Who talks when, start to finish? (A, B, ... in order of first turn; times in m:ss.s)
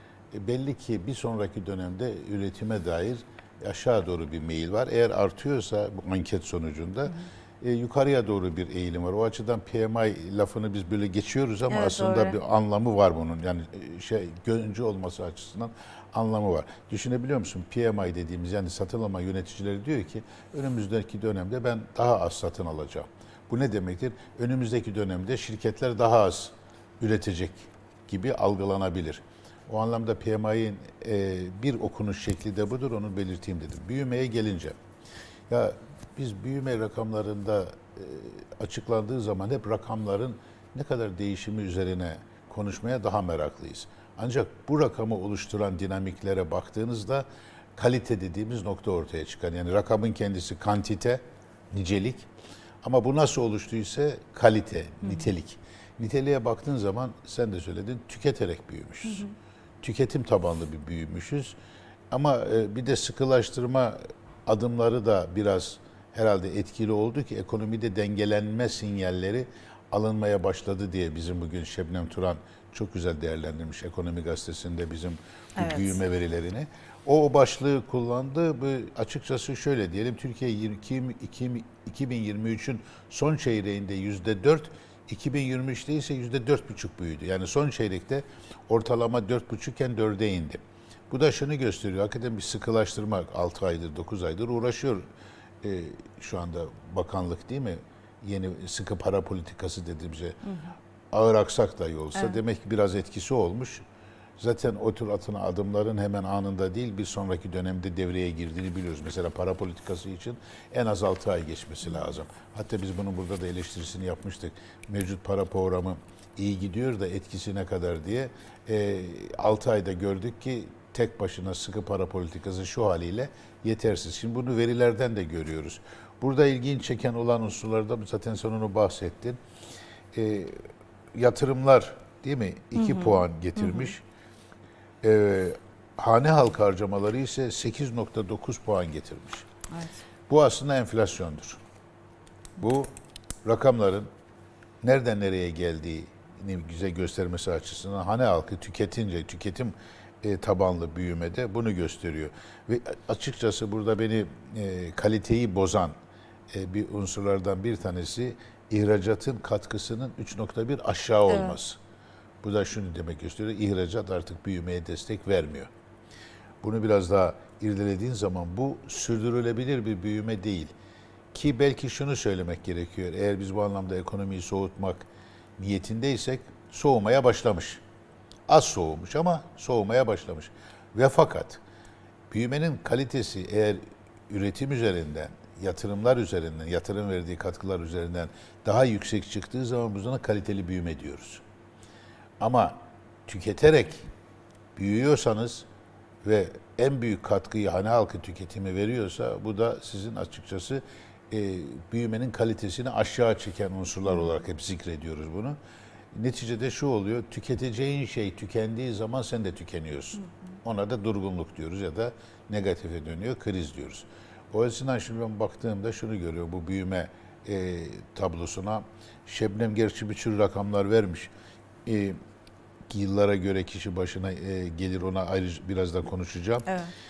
0:00.3-0:34.8 A
0:11.7-0:12.4 B
0:35.5-0:52.3 A
0:52.8-0:59.3 A
0:59.0-0:59.3 B
0:59.8-1:01.6 A
1:02.1-1:35.0 A
1:15.6-1:16.0 B
1:35.6-1:40.4 A
1:40.5-1:40.7 B
1:41.1-1:43.8 A
1:44.4-2:09.4 A
2:10.1-2:10.6 A
2:11.1-2:14.0 A
2:12.7-2:13.9 B
2:15.0-2:19.5 A
2:19.7-2:20.0 B
2:20.3-2:21.6 A
2:22.6-2:22.9 A
2:23.4-2:24.1 A
2:24.8-2:35.9 A
2:36.5-2:41.8 A
2:41.3-2:41.6 B
2:42.4-2:45.7 A
2:46.6-2:50.7 A
2:51.3-2:57.8 A
2:58.5-3:01.6 A
3:02.3-3:11.4 A
3:12.4-3:14.1 A
3:14.7-3:15.7 A
3:16.2-3:25.6 A
3:26.1-3:41.3 A
3:41.8-3:42.2 A
3:42.9-3:46.7 A
3:46.7-3:46.9 B